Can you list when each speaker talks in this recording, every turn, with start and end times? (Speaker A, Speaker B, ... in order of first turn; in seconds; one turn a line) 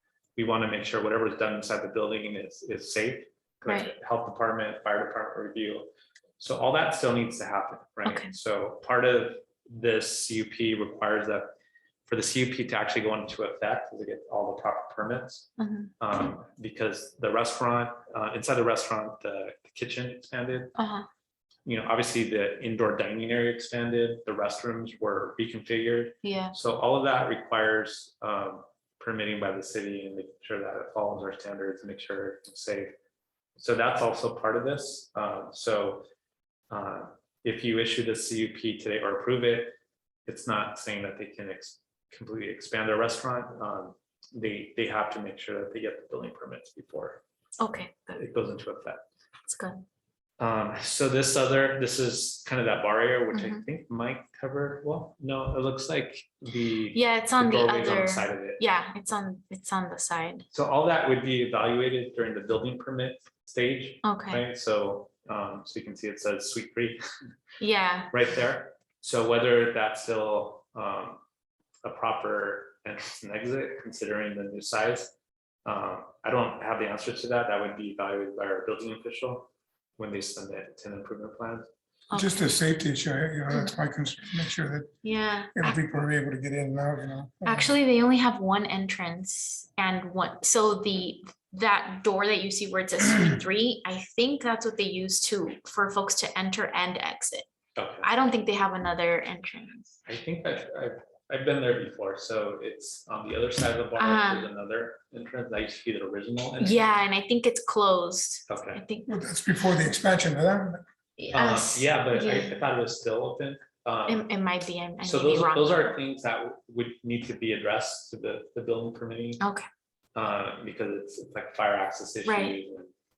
Speaker A: 0.4-11.5
Speaker B: 3.7-3.9
Speaker B: 8.1-8.3
Speaker A: 12.1-15.5
Speaker B: 15.6-15.9
Speaker A: 16.0-20.7
Speaker B: 20.8-21.1
Speaker A: 21.7-32.9
Speaker B: 26.2-26.6
Speaker A: 33.6-36.0
Speaker A: 36.7-39.7
Speaker A: 40.2-47.2
Speaker B: 47.6-48.2
Speaker A: 48.1-49.0
Speaker B: 49.5-49.8
Speaker A: 50.4-58.6
Speaker B: 53.3-53.6
Speaker B: 56.9-60.5
Speaker A: 60.5-67.0
Speaker B: 64.0-64.4
Speaker B: 67.6-68.1
Speaker A: 68.1-71.2
Speaker A: 71.8-75.1
Speaker A: 75.7-81.7
Speaker B: 82.1-82.4
Speaker C: 82.1-84.9
Speaker B: 85.0-85.8
Speaker C: 85.5-87.7
Speaker B: 87.4-97.5
Speaker A: 97.8-98.1
Speaker B: 98.0-100.0
Speaker A: 100.0-106.9
Speaker B: 104.0-104.5
Speaker B: 106.6-109.1
Speaker A: 108.5-108.8
Speaker C: 109.1-110.8
Speaker B: 111.2-112.6
Speaker A: 111.3-114.3
Speaker B: 114.1-115.9
Speaker A: 115.0-119.4
Speaker B: 119.4-119.7
Speaker A: 120.2-122.9
Speaker B: 122.2-122.6